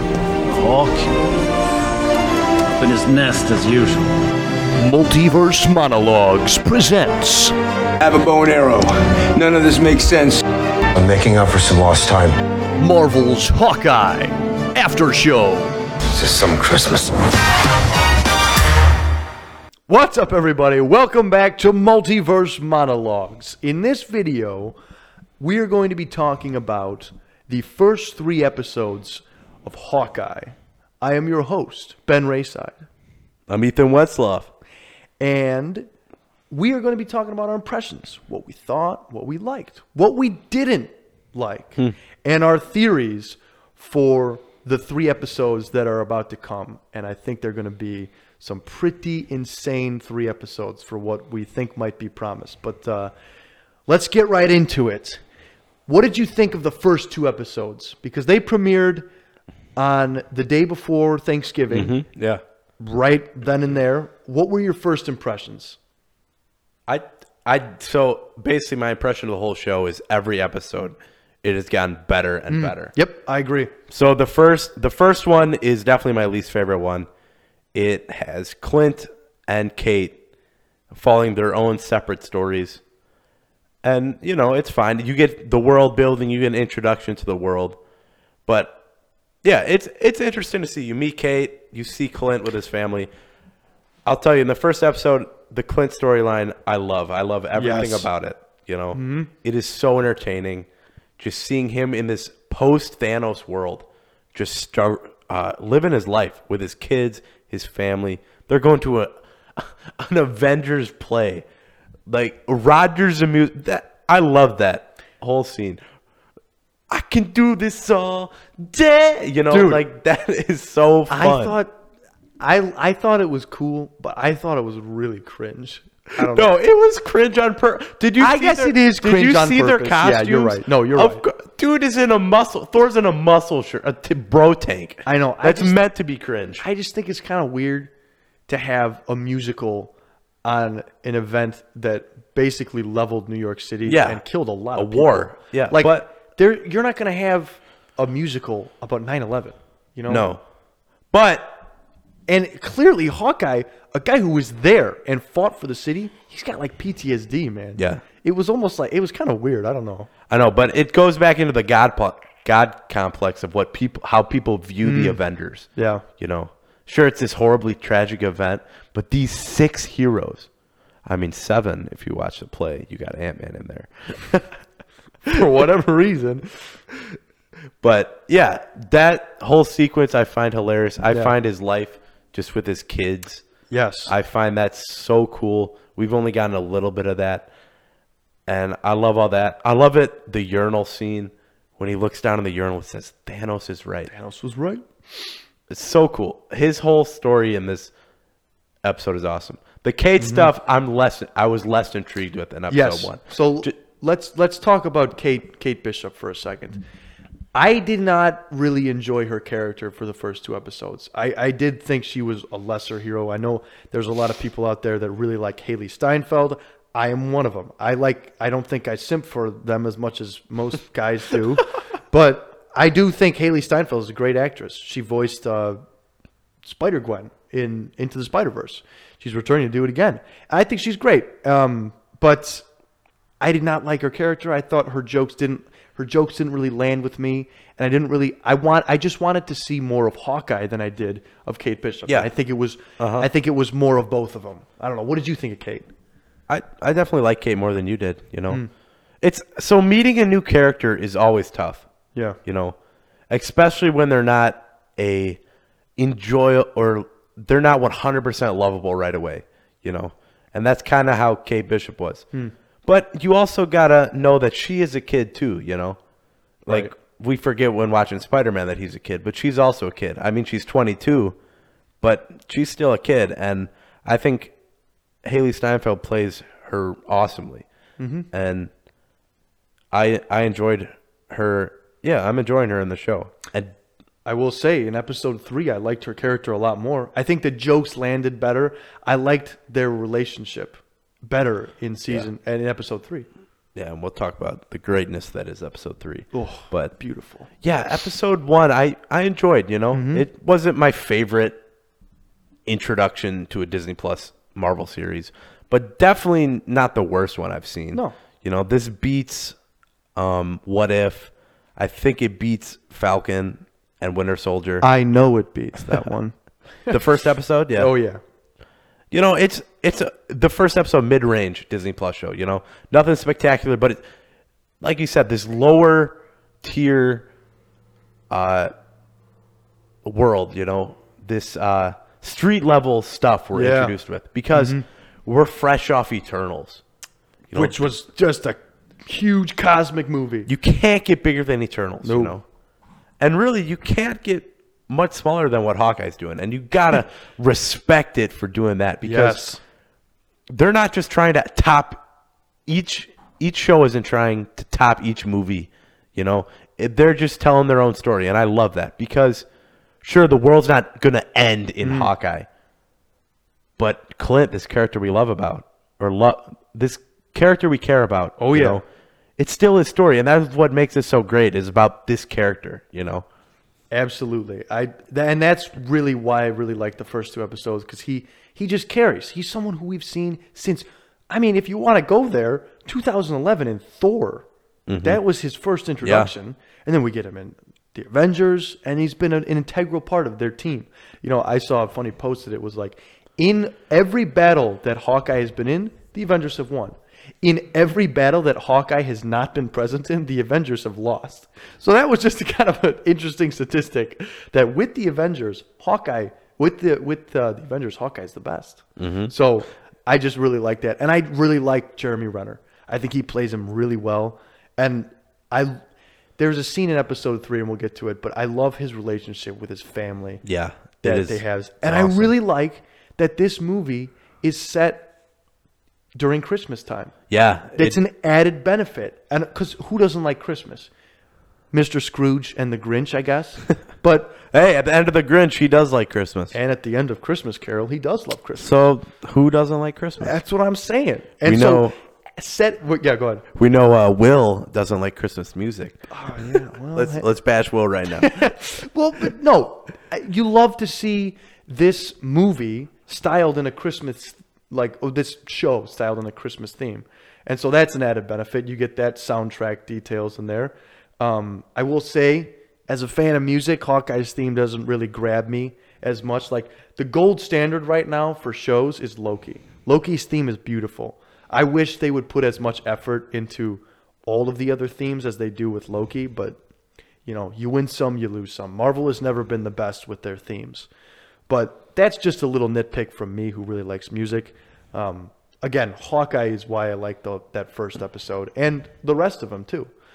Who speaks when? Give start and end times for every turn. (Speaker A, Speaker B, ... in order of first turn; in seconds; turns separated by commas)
Speaker A: 0.5-1.1, Speaker A: 2.7-4.1, Speaker B: 4.8-7.5, Speaker C: 8.0-10.4, Speaker D: 10.9-12.4, Speaker B: 12.8-15.8, Speaker D: 16.1-17.1, Speaker B: 19.9-24.8, Speaker B: 25.4-32.9, Speaker E: 33.5-34.5, Speaker B: 35.2-35.9, Speaker B: 36.5-53.1, Speaker B: 53.9-55.2, Speaker B: 55.9-59.1, Speaker B: 59.8-62.0, Speaker E: 61.7-62.4, Speaker B: 62.8-65.8, Speaker E: 66.9-72.9, Speaker B: 72.5-73.7, Speaker E: 73.9-77.1, Speaker E: 77.7-80.2, Speaker E: 80.9-82.8, Speaker E: 83.8-87.8, Speaker E: 88.5-88.8, Speaker E: 89.4-93.1, Speaker E: 94.0-100.7, Speaker B: 97.5-98.1, Speaker B: 98.9-99.3, Speaker E: 101.2-111.4, Speaker E: 112.1-115.8, Speaker E: 116.9-121.5, Speaker B: 119.5-119.8, Speaker B: 121.1-121.7, Speaker B: 122.4-126.5, Speaker E: 126.2-136.6, Speaker B: 128.2-131.2, Speaker B: 135.0-135.8, Speaker B: 136.6-137.9, Speaker B: 138.5-139.9, Speaker B: 140.4-150.3, Speaker E: 143.8-144.2, Speaker E: 144.7-146.1, Speaker E: 150.1-150.4, Speaker E: 151.1-151.7, Speaker B: 152.3-160.1, Speaker E: 157.8-158.0, Speaker E: 160.3-170.5, Speaker B: 164.8-165.2, Speaker B: 165.8-166.0, Speaker E: 171.1-174.2, Speaker B: 175.2-176.8, Speaker E: 177.8-183.4, Speaker B: 183.7-184.1, Speaker E: 184.1-187.5, Speaker E: 188.5-194.1, Speaker B: 194.1-194.8, Speaker E: 195.7-197.9, Speaker E: 198.8-203.7, Speaker B: 200.2-200.5, Speaker B: 202.7-206.8, Speaker B: 207.5-225.8, Speaker B: 226.6-232.7, Speaker B: 233.4-245.9, Speaker E: 243.0-243.3, Speaker E: 246.5-248.6, Speaker E: 249.2-251.8, Speaker E: 252.4-252.8, Speaker E: 253.3-255.4, Speaker E: 256.0-262.2, Speaker E: 262.8-266.0, Speaker B: 266.6-266.9, Speaker E: 266.7-271.4, Speaker E: 272.0-274.5, Speaker E: 275.2-277.6, Speaker B: 278.0-278.3, Speaker E: 278.3-278.7, Speaker E: 279.9-283.7, Speaker B: 284.2-293.2, Speaker E: 293.7-296.9, Speaker B: 296.3-297.5, Speaker E: 297.6-301.6, Speaker B: 299.9-300.3, Speaker E: 302.6-309.6, Speaker E: 310.1-314.9, Speaker B: 314.8-317.0, Speaker E: 316.9-317.9, Speaker B: 317.8-318.2, Speaker E: 319.1-324.0, Speaker E: 324.8-327.3, Speaker E: 328.3-328.7, Speaker E: 330.0-336.8, Speaker B: 333.5-333.9, Speaker B: 334.5-334.8, Speaker E: 337.5-337.9, Speaker B: 337.5-340.5, Speaker E: 340.4-342.4, Speaker B: 342.0-342.4, Speaker E: 343.2-349.6, Speaker B: 349.0-349.6, Speaker E: 350.5-352.0, Speaker E: 352.6-359.4, Speaker E: 360.0-362.5, Speaker B: 361.8-362.1, Speaker E: 363.8-368.8, Speaker B: 368.4-368.8, Speaker E: 369.4-373.2, Speaker B: 373.9-384.4, Speaker E: 384.9-385.2, Speaker B: 385.0-415.8, Speaker E: 386.0-386.3, Speaker E: 409.0-409.3, Speaker B: 416.4-420.4, Speaker E: 420.4-422.3, Speaker B: 421.0-425.1, Speaker B: 426.1-427.1, Speaker E: 427.3-428.0, Speaker B: 427.7-430.9, Speaker B: 431.7-434.4, Speaker E: 434.5-436.5, Speaker B: 436.5-438.7, Speaker E: 438.6-440.3, Speaker B: 440.2-443.5, Speaker E: 441.4-441.9, Speaker E: 443.5-448.5, Speaker B: 446.1-447.2, Speaker B: 448.2-476.6, Speaker B: 477.2-480.9, Speaker B: 481.5-489.9